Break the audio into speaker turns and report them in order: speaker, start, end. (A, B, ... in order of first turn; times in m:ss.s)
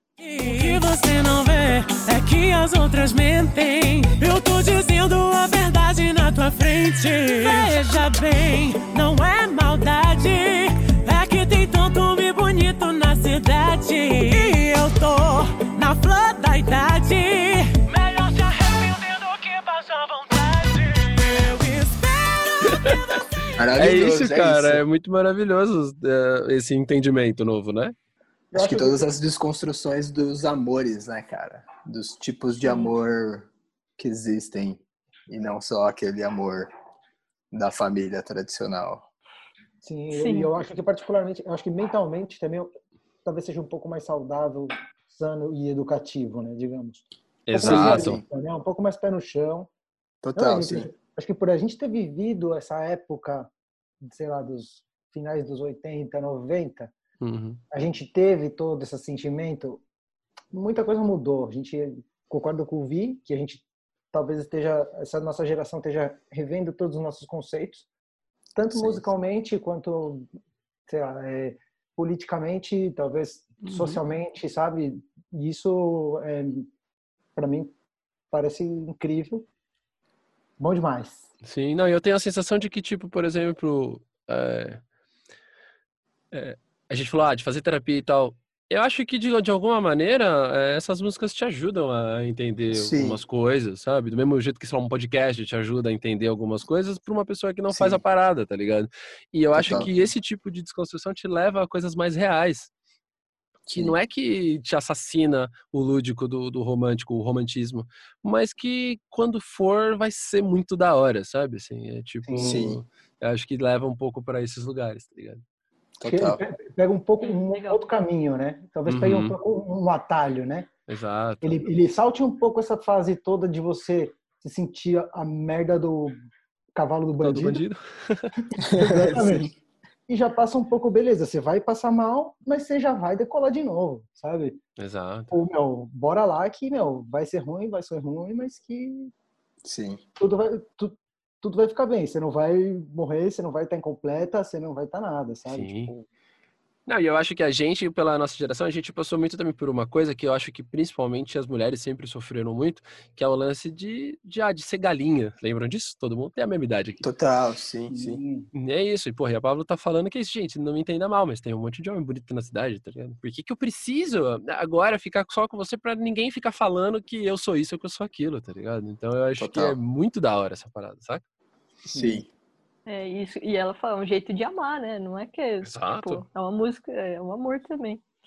0:00.2-0:23.2 A
0:23.6-0:24.8 B
0:23.8-0:27.9 C
0:28.5-0:29.1 D
0:28.5-0:36.7 B
0:32.6-0:32.9 E
0:37.5-0:39.1 B
0:39.8-0:42.7 D
0:40.1-0:40.5 E
0:43.2-0:49.7 D
0:47.5-0:48.2 C
0:47.6-0:48.2 B
0:50.2-0:50.9 B
0:50.3-0:56.9 D
0:57.2-0:57.6 C
0:57.7-0:59.8 D
1:00.5-1:07.8 D
1:08.5-1:10.3 D
1:08.7-1:09.0 B
1:10.9-1:16.7 D
1:13.6-1:14.0 C
1:17.4-1:17.7 D
1:18.3-1:19.5 D
1:20.6-1:21.3 D
1:21.4-1:24.8 C
1:26.3-1:42.7 C
1:32.7-1:33.2 B
1:37.7-1:38.0 B
1:39.5-1:39.9 B
1:43.7-1:43.9 B
1:43.7-1:55.4 C
1:52.2-1:52.6 D
1:52.4-1:52.8 B
1:56.0-1:56.4 B
1:56.0-2:00.7 D
1:57.2-1:57.8 E
1:58.8-1:59.4 C
2:00.9-2:01.6 C
2:01.4-2:07.6 D
2:07.2-2:08.3 C
2:08.6-2:09.5 B
2:08.7-2:09.5 D
2:10.1-2:14.6 D
2:14.8-2:15.4 C
2:15.3-2:19.1 D
2:19.6-2:20.0 B
2:20.2-2:26.1 D
2:25.5-2:25.9 C
2:26.9-2:37.0 C
2:37.0-2:38.2 B
2:37.9-2:38.5 D
2:38.5-2:51.2 C
2:49.4-2:49.8 B
2:51.9-2:52.3 B
2:51.9-2:52.2 D
2:52.8-2:58.0 E
2:55.6-2:56.2 C